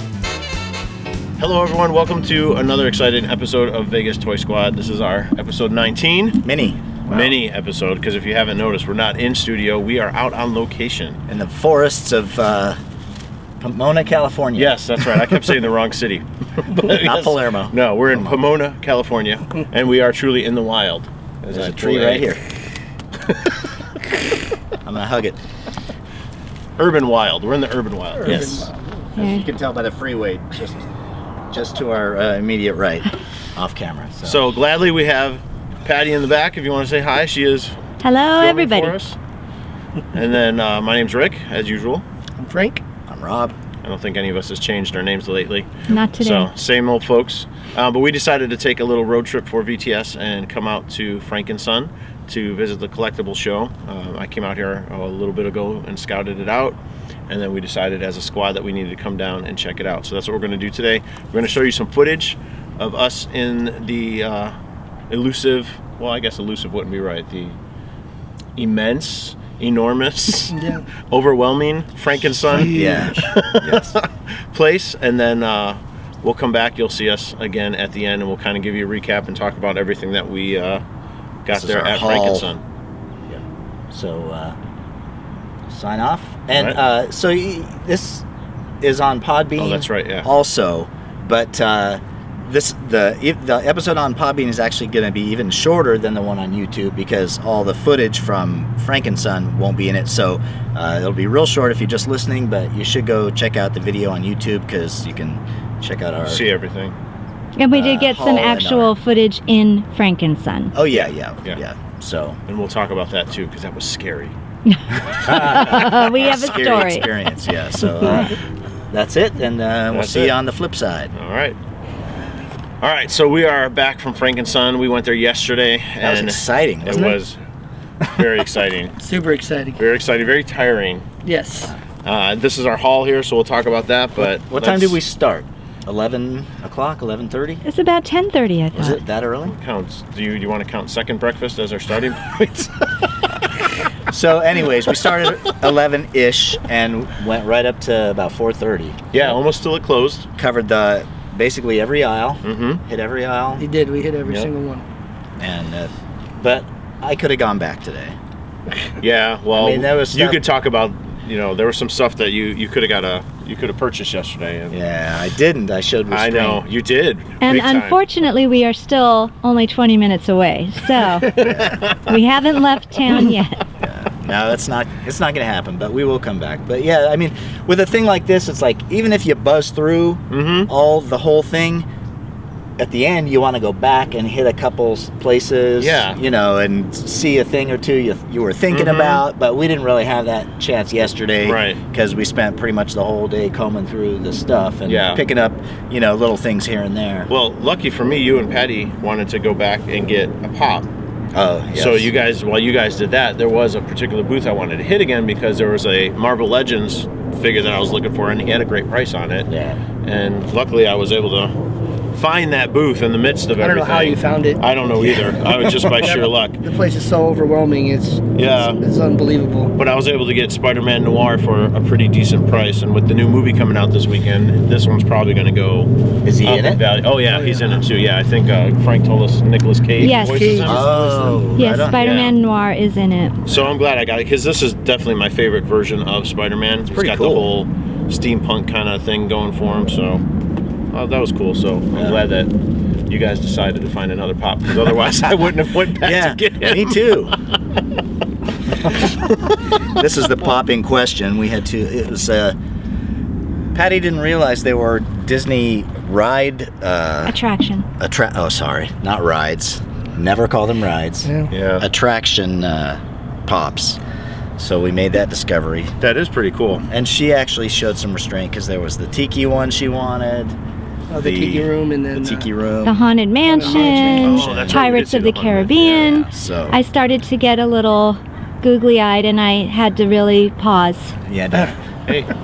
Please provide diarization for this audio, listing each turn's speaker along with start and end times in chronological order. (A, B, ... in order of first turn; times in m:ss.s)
0:01.4-0:06.4 A
0:06.4-0:07.4 B
0:07.1-0:11.2 A
0:11.3-0:12.8 B
0:13.6-0:14.8 B
0:14.6-0:22.3 A
0:16.8-0:18.4 B
0:21.5-0:22.4 B
0:24.8-0:25.4 B
0:26.8-0:28.7 A
0:28.2-0:28.7 C
0:29.2-0:30.9 B
0:29.2-0:29.4 D
0:31.5-0:34.5 B
0:34.2-0:37.7 A
0:38.0-0:39.0 D
0:38.4-0:39.2 A
0:40.1-0:42.0 A
0:42.4-0:42.8 C
0:43.1-0:43.6 B
0:43.8-1:04.5 A
0:45.9-0:46.5 D
1:05.1-1:07.6 A
1:08.6-1:10.6 A
1:10.5-1:10.8 C
1:11.1-1:20.8 A
1:12.5-1:13.3 C
1:12.6-1:14.0 B
1:21.4-1:22.6 A
1:21.5-1:22.5 B
1:23.3-1:24.6 B
1:25.7-1:28.2 B
1:26.5-1:26.8 A
1:28.8-1:46.4 B
1:29.6-1:30.2 A
1:46.2-1:46.9 A
1:47.6-1:50.7 D
1:47.7-1:48.9 B
1:50.7-1:52.4 B
1:50.9-1:51.6 A
1:52.5-1:54.3 A
1:54.7-1:57.1 D
1:55.0-1:58.4 B
1:58.9-2:01.1 B
1:59.9-2:00.4 A
2:01.1-2:01.6 A
2:02.8-2:07.4 A
2:06.0-2:07.2 B
2:08.1-2:08.9 A
2:09.0-2:09.8 C
2:09.8-2:11.0 A
2:11.2-2:11.7 C
2:12.0-2:15.0 A
2:14.5-2:17.6 B
2:17.6-2:19.0 D
2:18.8-2:19.5 B
2:19.5-2:22.8 A
2:24.1-2:29.3 B
2:29.1-2:30.3 A
2:30.4-2:33.6 B
2:32.4-2:32.8 A
2:33.6-2:34.8 C
2:35.4-2:38.2 B
2:39.0-2:44.8 A
2:39.5-2:40.4 B
2:44.7-2:46.6 B
2:46.1-2:48.0 A
2:47.4-2:53.6 D
2:51.3-2:51.6 C
2:51.4-2:51.8 B
2:51.4-2:52.0 A
2:53.8-3:01.9 B
3:00.3-3:00.7 A
3:02.8-3:17.3 B
3:05.8-3:06.2 A
3:08.7-3:09.2 A
3:11.4-3:11.8 A
3:14.8-3:15.2 A
3:17.3-3:20.9 A
3:21.3-3:22.1 B
3:21.7-3:29.5 A
3:29.5-3:29.8 B
3:30.0-3:31.5 A
3:32.1-3:36.6 A
3:33.6-3:34.6 C
3:35.0-3:36.2 B
3:36.6-3:39.8 C
3:38.3-3:38.8 A
3:39.8-3:50.8 A
3:46.2-3:46.8 B
3:47.3-3:47.8 C
3:50.0-3:51.5 C
3:50.0-3:50.6 D
3:50.6-3:52.0 B
3:51.6-3:53.4 D
3:52.0-3:52.4 A
3:53.5-4:00.2 A
3:53.5-3:53.7 B
3:56.9-3:57.5 B
4:00.9-4:02.5 A
4:01.9-4:02.2 B
4:03.1-4:07.4 A
4:06.0-4:07.3 B
4:09.8-4:12.6 B
4:13.7-4:17.4 B
4:17.2-4:17.9 D
4:18.0-4:24.0 B
4:21.2-4:21.5 C
4:21.5-4:21.9 A
4:24.6-4:25.9 B
4:26.0-4:26.8 A
4:26.9-4:30.6 B
4:31.1-4:32.5 C
4:31.2-4:33.0 B
4:32.8-4:41.2 D
4:33.5-4:34.4 C
4:33.6-4:35.0 B
4:34.2-4:36.0 A
4:35.8-4:36.8 B
4:41.2-4:41.8 B